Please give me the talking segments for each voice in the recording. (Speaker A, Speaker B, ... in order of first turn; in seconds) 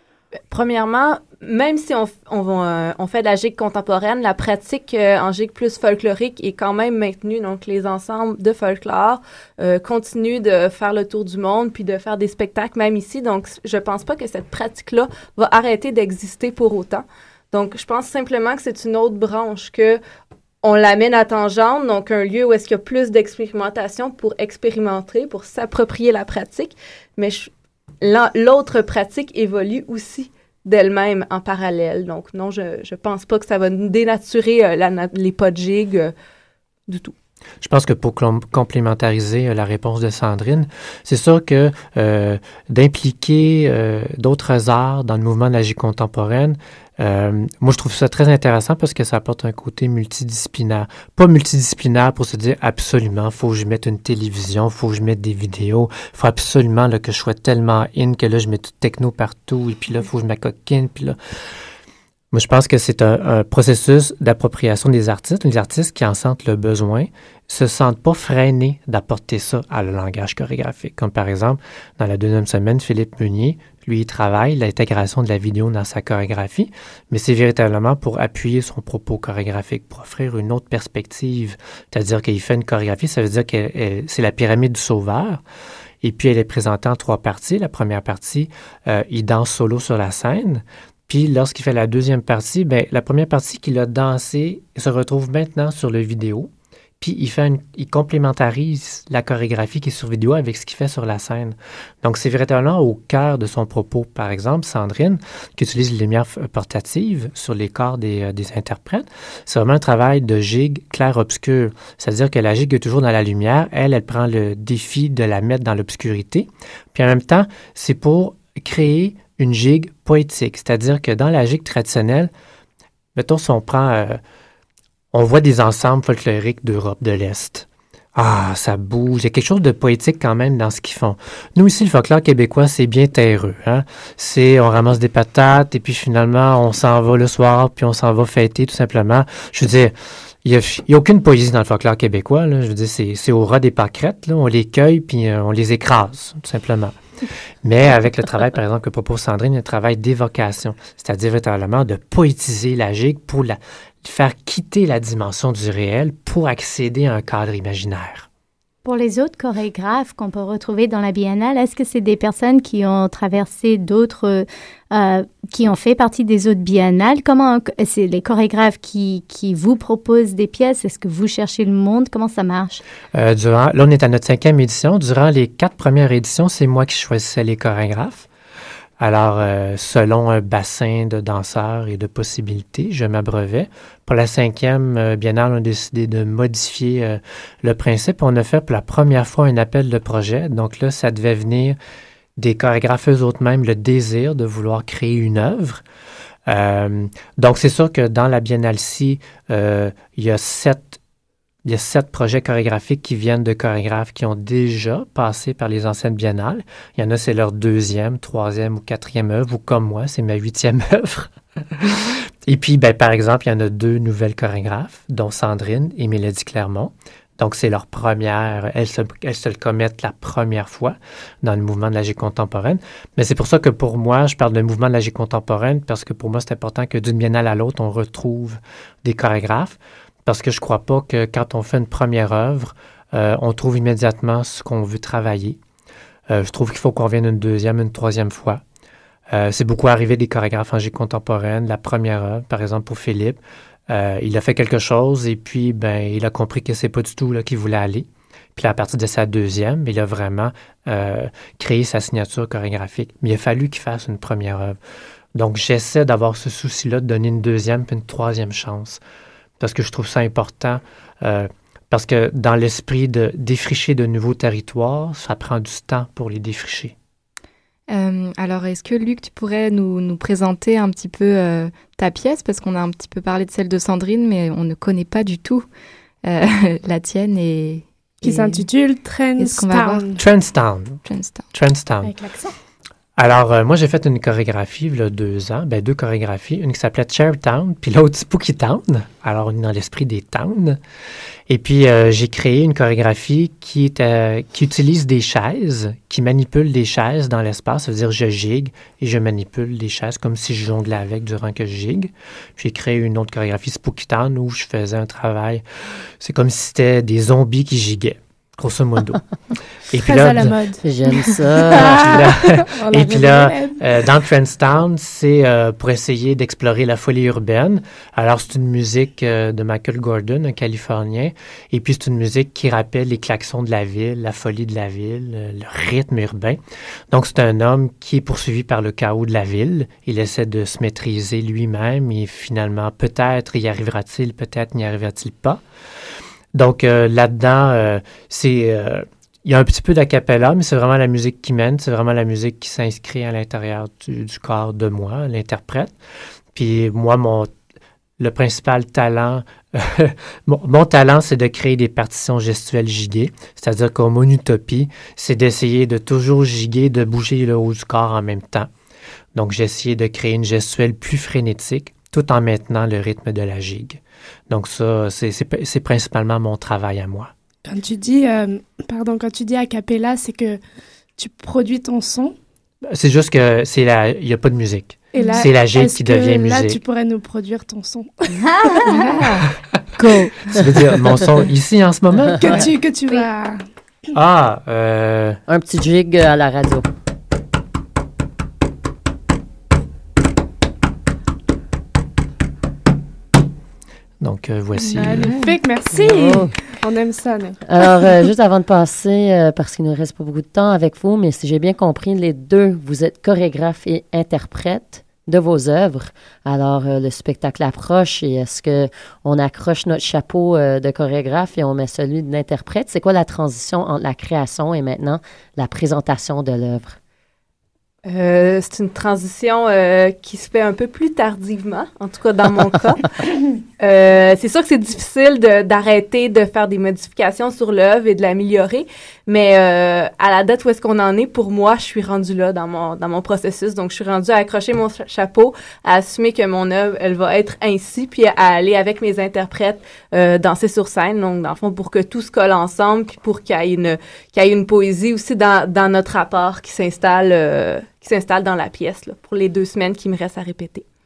Speaker A: 0.5-20.0, 20.6-27.5, 28.0-36.1, 36.9-37.1, 418.1-423.1, 423.8-450.9
Speaker B: 37.6-61.2, 62.3-85.4, 86.0-122.3, 123.2-124.2, 125.1-146.9, 147.6-158.3, 173.1-178.3, 179.0-191.8, 192.4-195.8, 196.5-201.0, 201.7-235.6, 236.3-238.6, 239.3-254.8, 255.3-259.0, 259.6-266.9, 280.2-281.0, 281.5-282.1, 283.2-290.8, 291.5-305.6, 306.2-309.2, 309.9-310.6, 311.7-335.6, 336.5-345.9, 346.5-347.5, 348.2-358.7, 359.4-367.3, 372.9-376.8, 380.5-382.6, 384.1-385.4, 394.2-395.4
Speaker C: 158.8-172.8, 378.6-379.1, 380.0-380.3
Speaker D: 267.9-275.7, 276.2-278.7, 279.4-280.1, 281.1-281.5
Speaker E: 278.2-280.2, 282.0-282.6, 310.0-313.8, 367.6-370.6, 371.2-372.4, 375.1-378.7, 382.4-383.6, 394.8-397.6
Speaker F: 310.8-311.9, 385.5-386.9, 395.9-396.6, 397.6-417.0